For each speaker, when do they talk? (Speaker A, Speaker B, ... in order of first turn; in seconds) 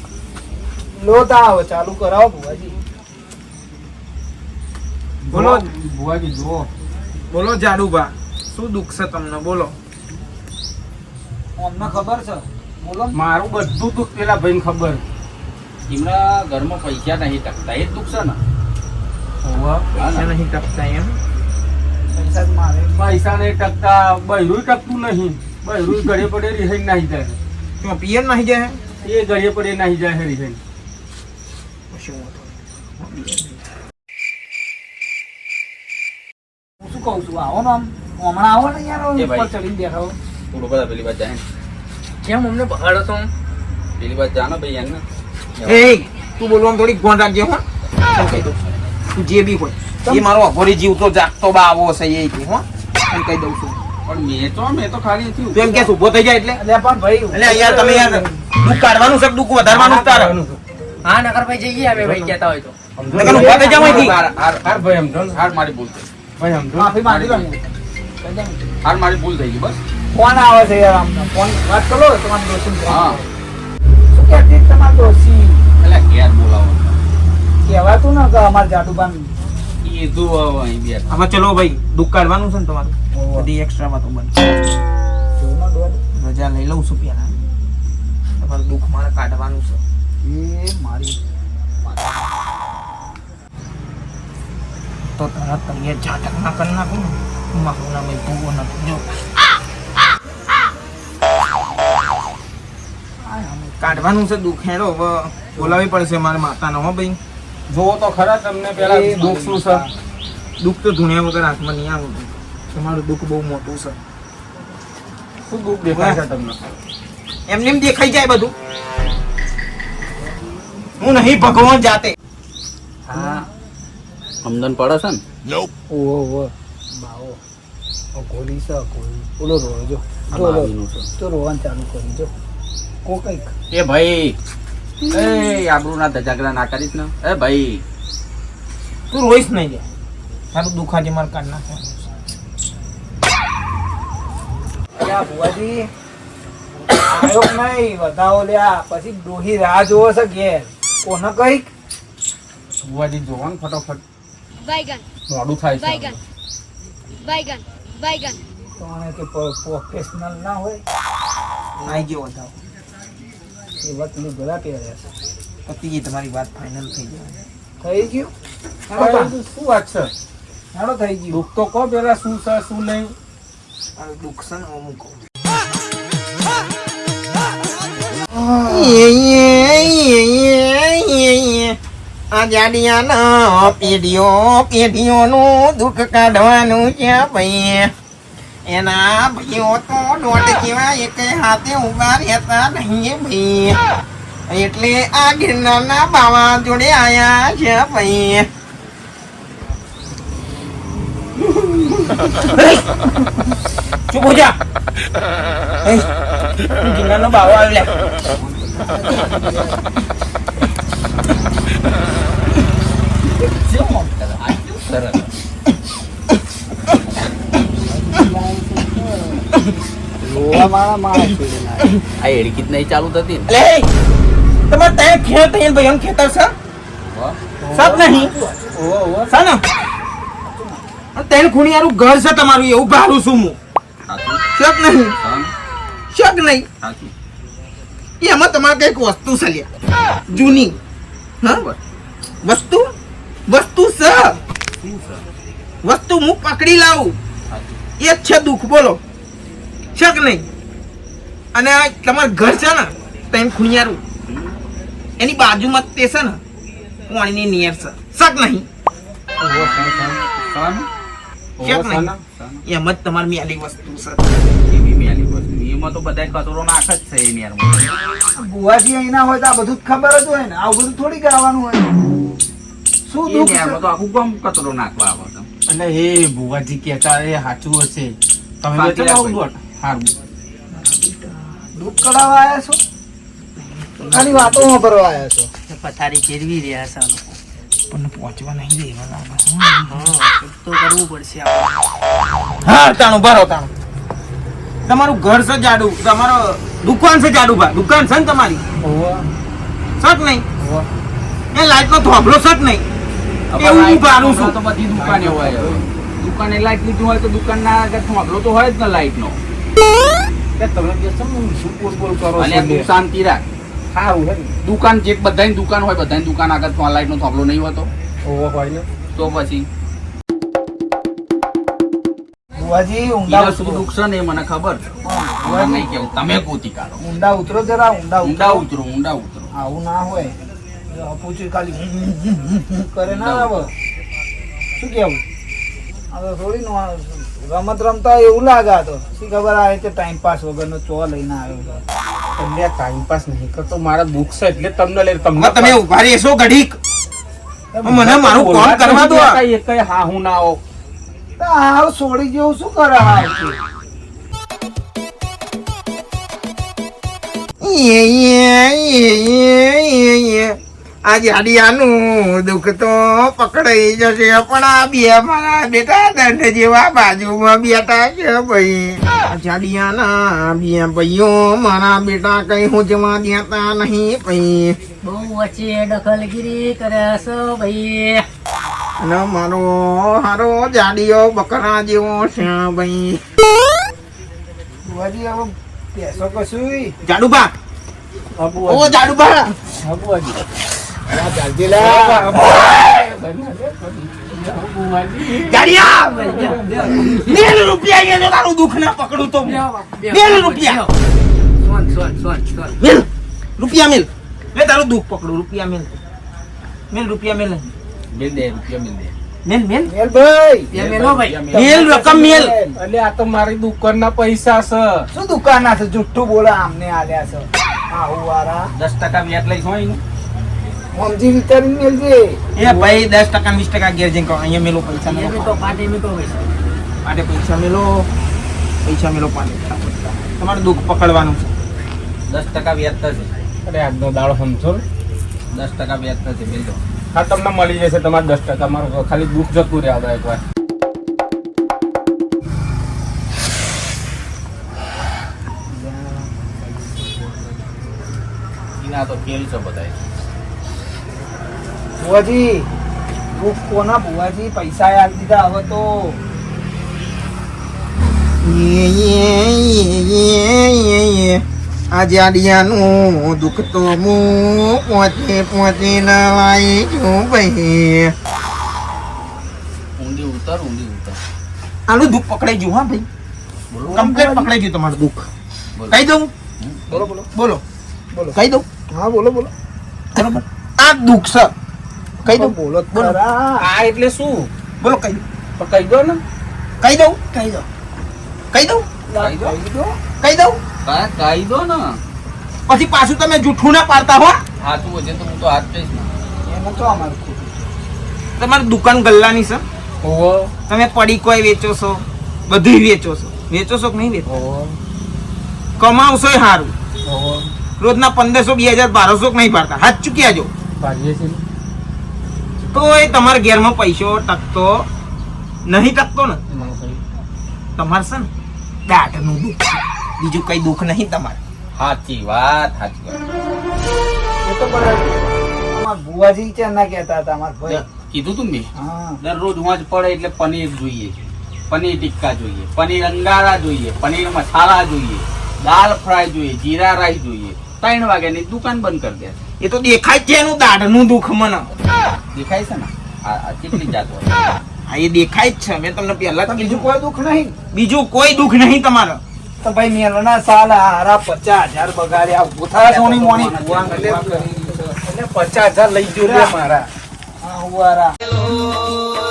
Speaker A: 1.0-2.8, 11.6-13.2, 22.1-23.2, 36.8-40.1, 48.1-48.5, 56.6-58.3, 63.1-64.1, 66.7-68.7, 70.1-73.2, 74.1-75.6, 77.6-79.3, 83.2-83.4, 85.4-86.0, 90.2-91.2, 91.8-92.1, 103.2-104.1, 108.7-109.9, 123.1-123.4, 125.9-127.4, 128.1-132.3, 133.0-133.5, 145.0-145.9, 147.1-151.7, 158.8-160.8, 163.8-165.1, 167.8-168.3, 168.9-169.3, 170.7-171.4, 178.6-179.1, 208.3-209.8, 213.4-214.1, 217.6-219.5, 220.2-221.9, 227.6-228.8, 230.4-230.9, 268.3-272.0, 273.1-273.8, 281.8-282.8, 284.1-285.5, 322.5-323.9, 325.0-325.9, 327.0-328.6, 329.5-330.4, 330.9-333.7, 334.8-335.2, 336.1-341.8, 351.4-353.6, 384.8-386.9, 391.1-392.4, 396.6-397.1, 409.9-410.7, 411.5-412.8, 415.1-418.7, 420.9-423.0, 445.7-447.8, 452.0-452.7, 453.3-456.2, 476.9-477.3, 478.9-479.5, 482.2-483.7, 489.1-490.0, 496.4-497.7, 524.4-527.8, 528.8-529.2, 546.5-547.5, 549.6-555.0, 556.0-556.5, 557.4-558.1
Speaker B: 5.2-6.7, 13.1-15.0, 19.4-19.9, 22.9-27.4, 29.0-30.6, 59.7-60.6, 61.9-62.3, 63.0-64.1, 64.6-65.4, 66.4-67.0, 107.7-109.8, 115.5-116.6, 152.8-154.0, 155.3-156.2, 168.9-170.1, 171.3-173.1, 228.8-229.3, 259.4-260.2, 261.6-262.2, 275.7-279.6, 298.8-299.3, 300.6-300.9, 304.9-305.8, 310.6-312.9, 313.9-314.5, 318.2-318.9, 342.4-345.8, 347.8-350.6, 388.4-389.0, 389.8-390.4, 391.7-395.6, 396.2-396.9, 412.7-415.1, 433.6-434.8, 437.1-440.4, 483.6-484.5, 485.6-486.2, 500.0-500.5, 504.3-504.8, 507.0-507.5, 510.8-511.4, 516.5-517.0, 553.9-554.4, 555.0-556.9
Speaker C: 5.3-5.7, 7.3-9.7, 20.0-21.2, 27.8-28.8, 31.9-33.6, 45.6-47.6, 48.1-48.5, 49.1-53.8, 55.5-56.6, 57.3-60.3, 63.1-64.2, 81.1-84.7, 86.1-87.3, 88.3-89.8, 95.1-99.4, 103.8-107.2, 110.6-114.0, 115.9-116.2, 117.5-118.5, 121.0-122.1, 139.1-139.8, 140.5-142.1, 161.8-162.5, 165.7-167.4, 173.9-175.2, 178.4-181.8, 182.3-187.9, 188.7-193.8, 194.5-198.5, 202.2-203.1, 204.1-204.6, 205.8-208.1, 223.5-223.9, 224.7-226.5, 227.7-228.3, 229.3-229.6, 231.2-233.6, 234.5-235.2, 236.1-236.7, 238.2-239.7, 240.3-240.8, 242.4-242.9, 243.5-244.4, 245.8-247.2, 248.0-249.0, 249.9-250.4, 251.5-254.0, 255.2-256.4, 257.1-258.7, 261.6-262.1, 262.6-264.5, 280.7-282.4, 283.6-284.8, 287.9-290.2, 292.6-293.7, 294.9-298.6, 300.0-300.4, 301.5-302.8, 303.6-304.6, 345.4-346.8, 347.8-349.4, 357.6-374.8, 379.0-383.2, 387.0-387.5, 388.6-389.6, 395.3-400.9, 402.8-406.0, 406.9-407.7, 409.4-409.9, 411.5-412.5, 422.6-425.7, 427.0-428.1, 428.8-431.5, 458.4-468.1, 471.9-473.1, 473.9-475.3, 475.9-476.3, 476.9-477.6, 478.3-478.6, 480.1-481.5, 482.2-483.2, 484.8-485.2, 486.8-487.6, 488.5-488.9, 490.2-490.6, 492.7-494.4, 498.4-499.6, 500.7-504.3, 505.8-506.7, 507.8-510.5, 512.7-514.9, 515.6-516.4, 517.8-518.3, 518.9-521.4, 539.6-541.7, 544.9-546.9, 547.7-549.2
Speaker D: 15.9-18.4, 19.9-20.3, 39.1-39.5, 40.5-41.4, 44.0-45.0, 45.6-45.9, 54.1-55.9, 63.3-64.7, 65.3-66.1, 67.0-67.5, 68.8-69.8, 72.8-73.2, 75.8-77.0, 79.8-81.1, 123.1-123.4, 124.4-125.2, 130.3-131.1, 133.7-134.3, 135.1-137.8, 214.2-215.3, 222.2-223.5, 227.0-227.4, 234.1-234.4, 235.2-235.5, 236.8-237.1, 240.3-240.8, 241.4-241.8, 244.8-245.2, 247.5-247.8, 254.3-254.6, 259.5-260.9, 262.4-262.6, 264.6-267.9, 273.2-275.5, 278.7-280.1, 303.5-309.4, 312.4-313.4, 314.6-317.9, 319.1-319.7, 323.2-324.9, 325.4-327.0, 328.2-329.5, 333.1-333.6, 408.1-409.1, 410.7-411.7, 418.7-420.0, 432.3-433.3, 435.5-436.8, 448.8-449.9, 470.0-471.2, 473.7-474.3, 475.8-476.1, 489.2-489.6, 490.8-492.0, 494.6-496.1, 521.8-523.2, 527.7-531.1, 531.7-539.4, 542.3-544.6, 552.8-554.5
Speaker E: 42.2-43.3, 61.0-62.7, 285.7-287.4, 289.9-291.7, 375.0-378.2, 395.7-397.2, 399.4-400.9, 401.6-402.8, 410.7-411.4, 425.1-426.5